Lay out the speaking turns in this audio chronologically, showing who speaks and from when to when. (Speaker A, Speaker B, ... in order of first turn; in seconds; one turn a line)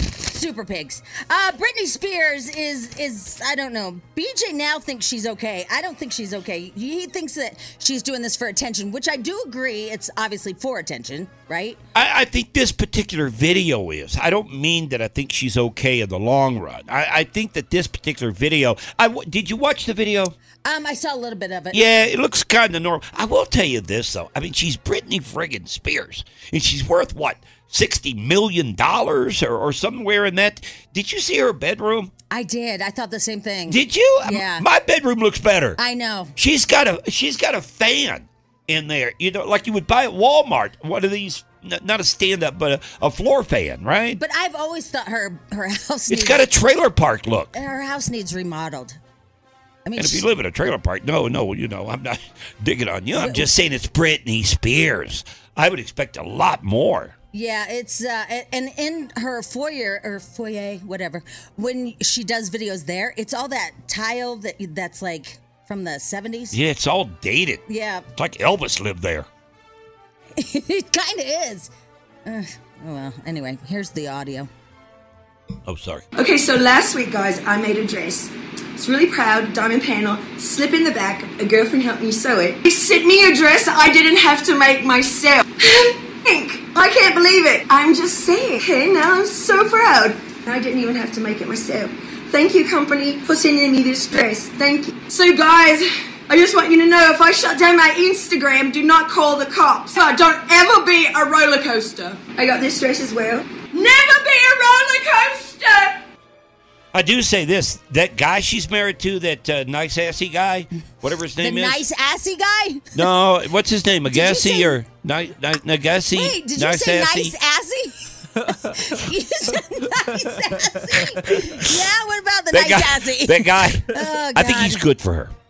Speaker A: 0.2-11.8
Speaker B: 11.9-20.3
Speaker A: 20.6-21.8
Speaker B: 21.7-32.1
Speaker A: 32.3-34.6
Speaker B: 33.7-35.8
Speaker A: 35.8-36.3
Speaker B: 36.4-44.2
Speaker A: 44.1-46.5
Speaker B: 46.1-47.5
Speaker A: 47.5-49.0
Speaker A: 49.9-50.2
Speaker B: 50.0-57.1
Speaker A: 53.2-53.5
Speaker A: 57.3-66.6
Speaker B: 66.5-67.6
Speaker A: 67.7-68.0
Speaker B: 68.1-69.3
Speaker A: 70.3-71.7
Speaker A: 72.2-74.5
Speaker B: 75.7-76.0
Speaker C: 76.1-106.0
Speaker B: 106.9-111.8
Speaker A: 111.4-113.0
Speaker B: 112.9-117.3
Speaker A: 114.1-114.8
Speaker A: 116.1-124.8
Speaker B: 121.3-121.7
Speaker B: 122.5-125.3